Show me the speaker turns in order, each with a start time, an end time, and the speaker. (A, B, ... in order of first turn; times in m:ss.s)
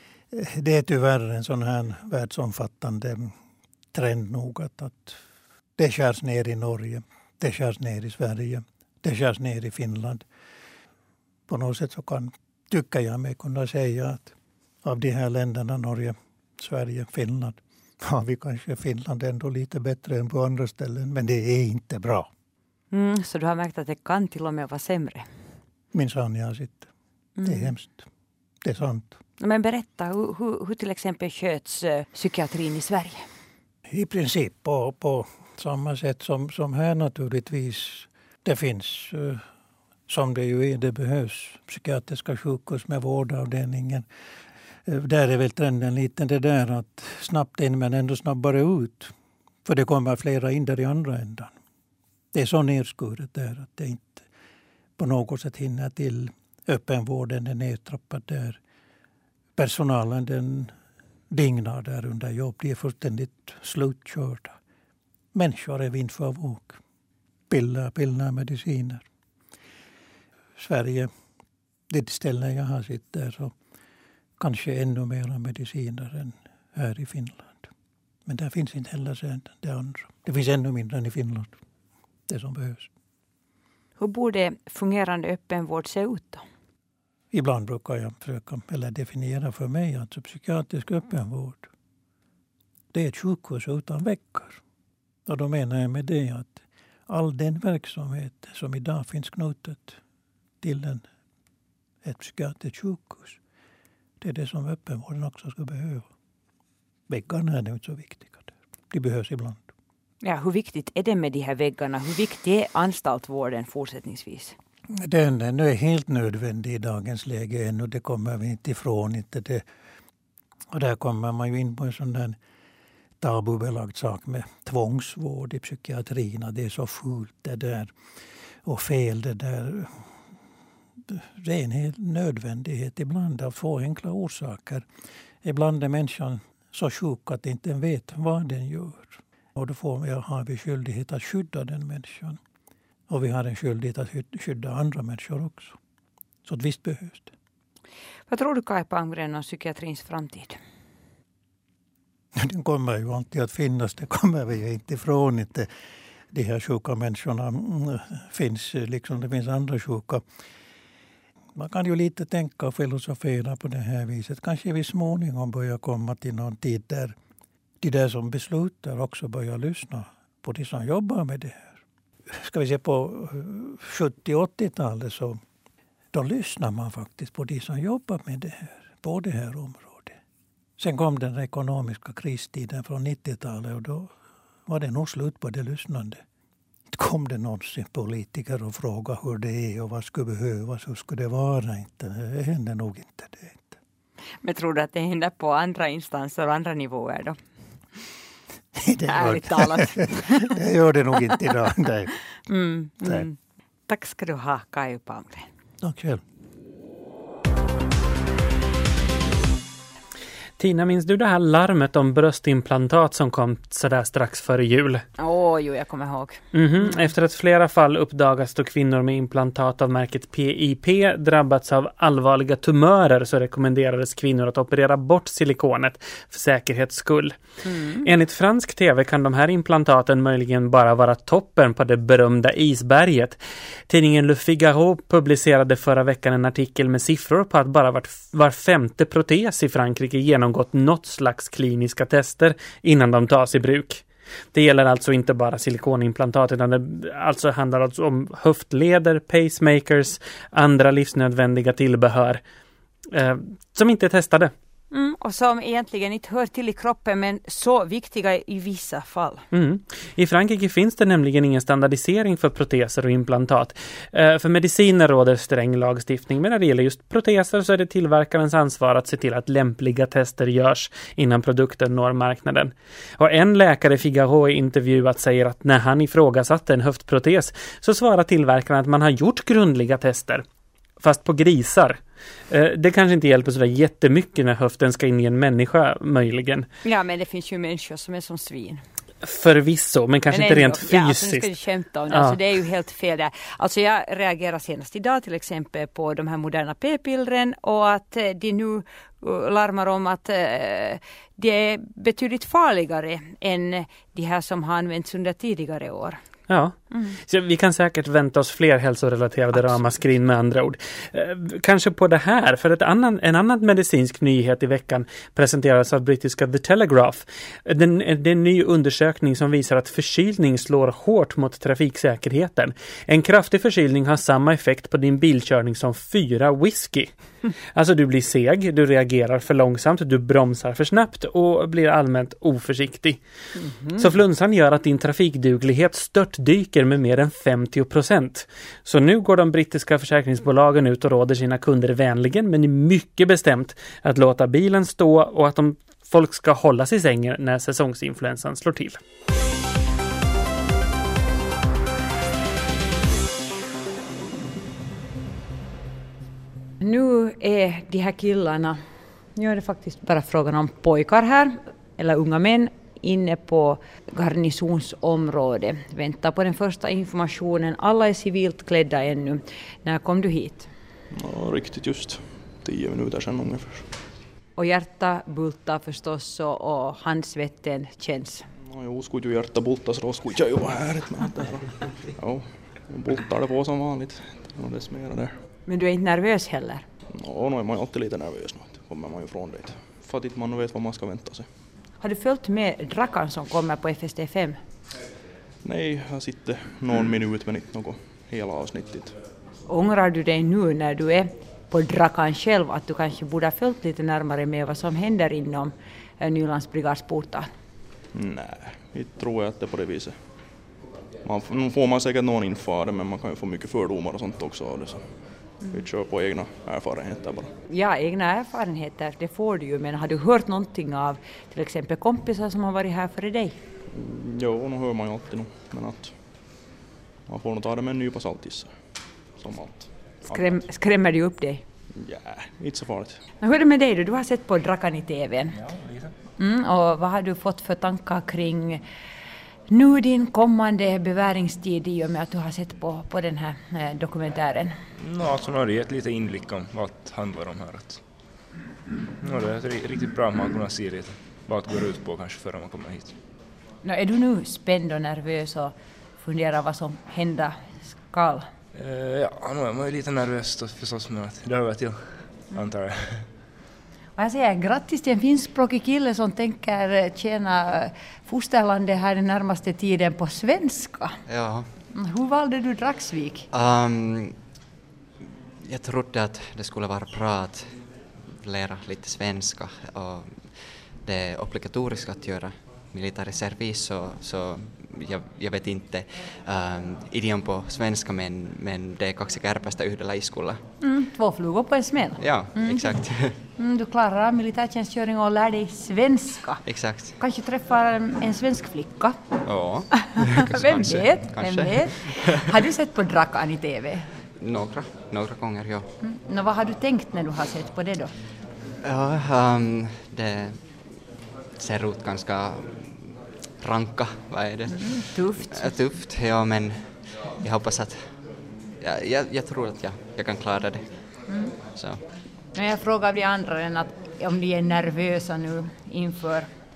0:00.3-0:03.3 A
0:03.9-0:05.2 A
0:05.8-0:10.3 A
0:11.5-0:14.3 A
0:14.8-0:22.3 A
0:22.9-0:25.3 B
0:25.9-0:26.9 A
0:27.4-0:27.7 B
0:27.4-0:28.1 A
0:28.6-0:29.2 A
0:29.4-0:33.2 B
0:33.9-0:39.4 A
0:40.1-0:44.0 A
0:44.9-0:49.1 A
0:49.6-0:51.5 A
0:52.3-0:54.3 A
0:55.0-0:58.6 A
0:59.6-1:00.7 A
1:01.3-1:04.6 A
1:05.3-1:06.8 A
1:07.5-1:09.0 A
1:10.6-1:11.1 A
1:11.9-1:13.5 A
1:14.4-1:17.7 A
1:18.3-1:21.6 A
1:22.3-1:22.9 A
1:24.0-1:26.4 B
1:27.3-1:31.7 A
1:32.9-1:34.6 A
1:35.3-1:40.0 A
1:40.6-1:41.0 A
1:42.0-1:43.4 A
1:44.2-1:46.1 A
1:47.1-1:49.7 A
1:50.2-1:54.6 B
1:55.0-1:59.6 A
2:00.7-2:02.4 A
2:03.2-2:07.9 A
2:08.6-2:10.1 A
2:11.1-2:14.8 A
2:15.4-2:22.4 A
2:23.1-2:25.8 A
2:26.4-2:27.3 A
2:28.3-2:30.6 B
2:32.4-2:35.7 A
2:36.3-2:40.2 A
2:41.6-2:47.2 A
2:47.8-2:51.8 A
2:52.3-2:55.4 A
2:56.1-3:00.2 A
3:00.8-3:04.1 A
3:04.7-3:06.2 A
3:06.9-3:13.8 A
3:14.4-3:17.4 B
3:18.8-3:22.2 A
3:19.1-3:20.6 B
3:22.5-3:23.4 B
3:23.9-3:25.5 B
3:25.8-3:26.2 A
3:30.6-3:35.0 C
3:35.2-3:36.9 B
3:36.5-3:47.4 C
3:47.6-3:48.1 B
3:48.0-4:12.4 C
4:13.1-4:14.5 C
4:14.9-4:19.5 B
4:19.5-4:40.4 C
4:41.0-4:42.0 C
4:42.5-4:46.7 C
4:46.8-4:48.8 B
4:49.2-4:51.5 C
4:50.3-5:06.2 B
5:06.5-5:27.2 C
5:06.9-5:07.2 B
5:27.7-5:33.2 C
5:33.6-5:34.0 B
5:34.0-5:49.0 C
5:56.8-5:58.8 B
5:59.4-6:10.7 B
6:11.1-6:13.9 D
6:14.6-6:18.5 B
6:18.7-6:25.4 D
6:25.7-6:26.8 B
6:27.1-6:31.5 D
6:32.0-6:34.6 B
6:35.6-6:39.2 D
6:39.7-6:47.5 B
6:48.1-6:50.5 D
6:51.2-6:57.5 D
6:57.7-7:03.6 B
7:03.9-7:06.6 D
7:07.3-7:10.6 D
7:10.2-7:11.6 B
7:12.0-7:13.2 D
7:13.4-7:15.6 B
7:15.5-7:16.1 E
7:16.4-7:18.8 B
7:19.7-7:24.8 B
7:25.0-7:28.0 E
7:29.2-7:33.2 E
7:33.8-7:38.5 B
7:38.7-7:43.3 E
7:44.2-7:51.2 B
7:51.3-7:51.8 F
7:51.9-7:53.5 B
7:53.5-7:54.5 F
7:55.6-8:10.6 F
8:10.8-8:24.1 B
8:12.2-8:13.4 F
8:16.6-8:17.2 F
8:19.4-8:22.5 F
8:24.4-8:25.9 F
8:26.0-8:28.2 B
8:28.8-8:31.0 F
8:31.6-8:42.0 F
8:34.7-8:35.8 B
8:41.3-8:41.6 B
8:42.6-8:46.5 B